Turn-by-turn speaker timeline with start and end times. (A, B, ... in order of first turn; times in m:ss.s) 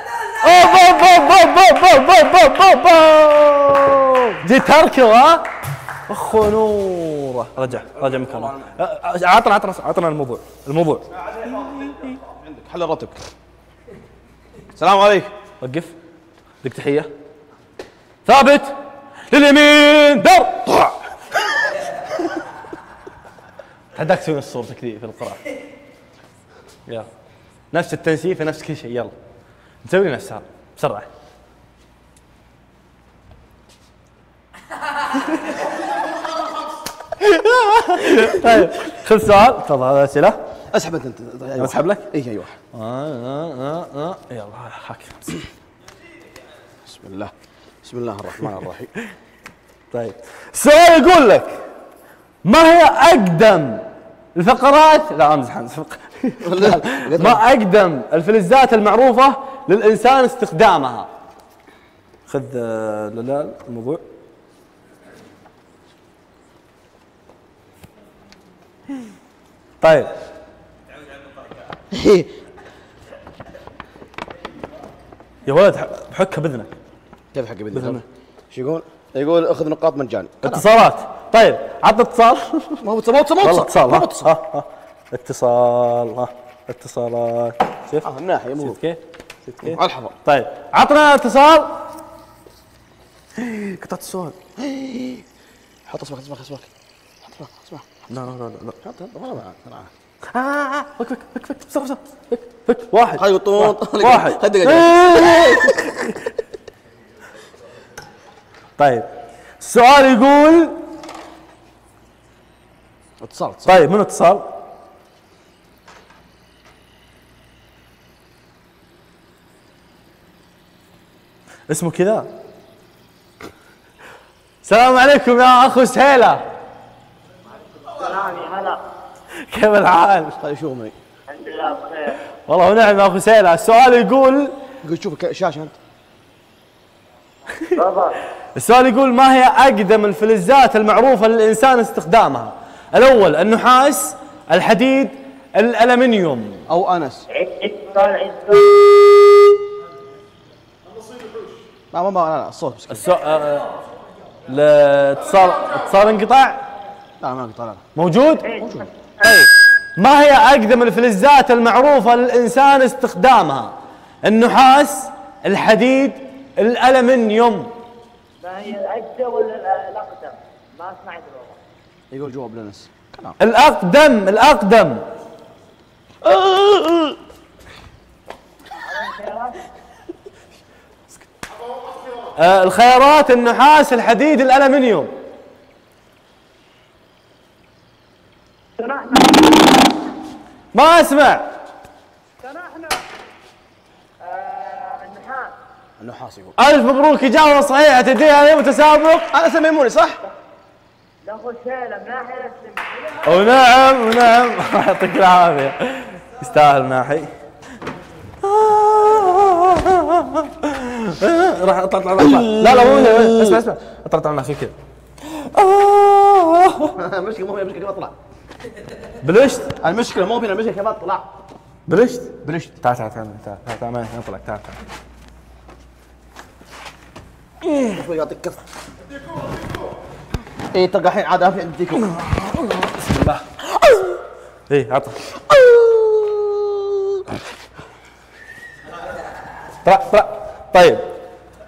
0:00.4-0:05.5 A
0:06.1-0:11.1 A
0:07.6-0:08.7 B
0:11.4-0:13.2 B
0:11.7-0:12.0 A
0:14.8-0:15.3 B
0:15.6-0:16.0 A
0:16.6-0:17.1 A
0:18.2-0:18.7 A
0:19.3-0:21.0 A
0:24.0-0:25.4 A
0:27.7-0:29.1 A
0:29.8-0:31.1 A
0:37.1-0:40.4 A
0:40.7-0:42.6 B
0:41.6-0:42.1 A
0:42.7-0:45.4 A
0:46.8-0:47.3 B
0:47.8-0:48.9 B
0:49.9-0:51.6 A
0:52.4-1:01.1 A
0:56.4-0:57.4 B
1:02.3-1:04.0 A
1:09.8-1:10.1 A
1:11.9-1:12.3 B
1:15.5-1:16.7 A
1:17.3-1:20.7 B
1:17.7-1:18.0 A
1:20.4-1:22.8 A
1:22.8-1:24.4 B
1:23.4-1:31.8 A
1:28.0-1:28.8 B
1:29.6-1:30.2 B
1:33.4-1:34.4 A
1:34.6-1:35.2 B
1:35.9-1:36.7 B
1:37.2-1:37.9 B
1:38.1-1:38.8 A
1:38.8-1:39.9 B
1:40.3-1:46.3 A
1:43.2-1:45.8 B
1:48.8-1:49.1 A
1:49.6-1:50.8 A
1:53.2-1:53.9 B
1:53.7-1:54.5 A
2:01.7-2:02.3 A
2:04.6-2:06.4 A
2:07.8-2:08.8 C
2:09.5-2:10.4 A
2:10.4-2:11.0 B
2:11.3-2:12.2 C
2:12.3-2:14.5 A
2:14.8-2:15.8 B
2:17.8-2:18.2 C
2:18.6-2:26.6 A
2:26.7-2:27.3 B
2:27.3-2:29.0 C
2:31.9-2:33.0 B
2:32.9-2:33.7 A
2:34.5-2:36.6 A
2:37.2-2:37.8 B
2:38.0-2:38.7 A
2:38.5-2:38.8 C
2:39.2-2:47.7 A
2:48.4-2:51.6 C
2:52.1-2:53.4 B
2:53.4-2:55.0 A
2:56.2-2:57.2 B
2:58.8-2:59.7 C
3:02.4-3:05.1 A
3:08.8-3:09.9 C
3:10.7-3:11.5 A
3:12.4-3:13.0 C
3:14.2-3:15.6 C
3:16.0-3:16.6 B
3:16.6-3:19.3 A
3:19.3-3:20.2 B
3:21.2-3:23.2 C
3:23.2-3:27.3 A
3:28.4-3:37.0 A
3:32.2-3:33.6 B
3:37.0-3:38.1 B
3:39.2-3:39.8 A
3:39.8-3:41.3 B
3:41.9-3:44.8 A
3:42.4-3:42.8 B
3:47.7-3:48.6 B
3:50.7-3:52.1 B
3:52.1-3:53.4 A
3:54.7-3:55.4 A
3:55.5-3:57.1 B
3:59.8-4:01.1 A